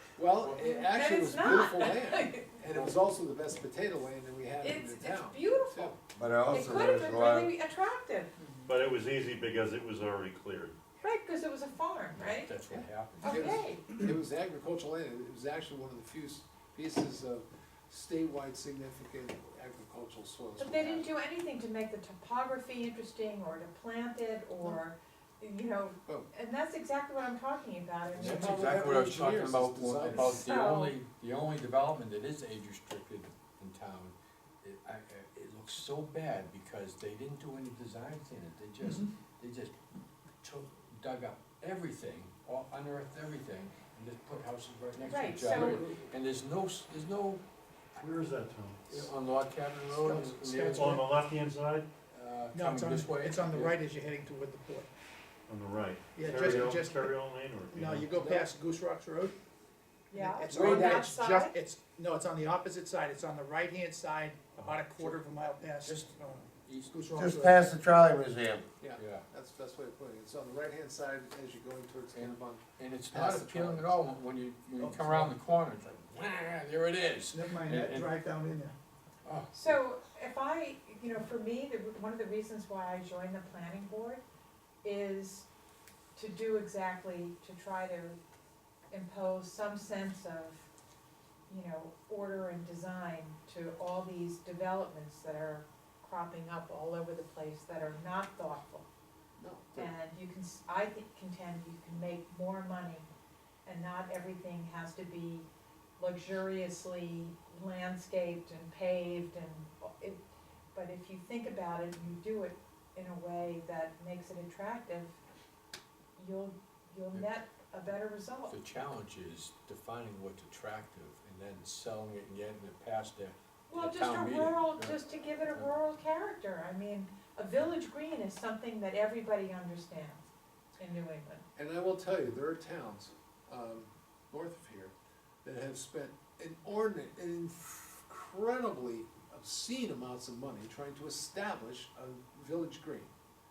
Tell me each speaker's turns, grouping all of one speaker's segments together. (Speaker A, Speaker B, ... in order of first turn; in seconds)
Speaker A: 0.2-6.0, 13.3-21.1, 28.1-30.6, 45.5-45.9, 60.5-61.0, 68.8-74.0, 74.8-75.3, 99.4-99.9, 131.6-134.9, 135.4-143.1
Speaker B: 0.4-2.6, 4.6-6.0, 6.5-8.3, 11.0-12.6, 13.2-13.9, 20.6-28.9, 30.2-31.0, 45.1-45.8, 60.1-61.5, 79.5-84.2, 84.8-85.5, 86.2-88.2, 88.9-90.7, 91.5-98.8, 99.8-103.0, 103.7-105.5, 106.0-115.2, 116.2-118.5, 123.7-130.3, 130.8-131.5
Speaker C: 6.1-7.5, 67.2-68.7
Speaker D: 8.7-10.8, 48.0-49.0, 50.8-51.9, 55.5-58.1
Speaker E: 12.2-13.6, 28.1-39.8, 40.4-48.0, 48.9-51.0, 52.1-53.8, 58.2-58.5, 60.5-61.1, 65.8-67.0, 69.0-69.2, 72.1-78.1, 79.2-79.7, 118.5-125.7
Speaker F: 49.9-51.1, 52.5-54.9, 56.1-57.1, 57.7-59.4, 60.1-67.6, 77.3-78.7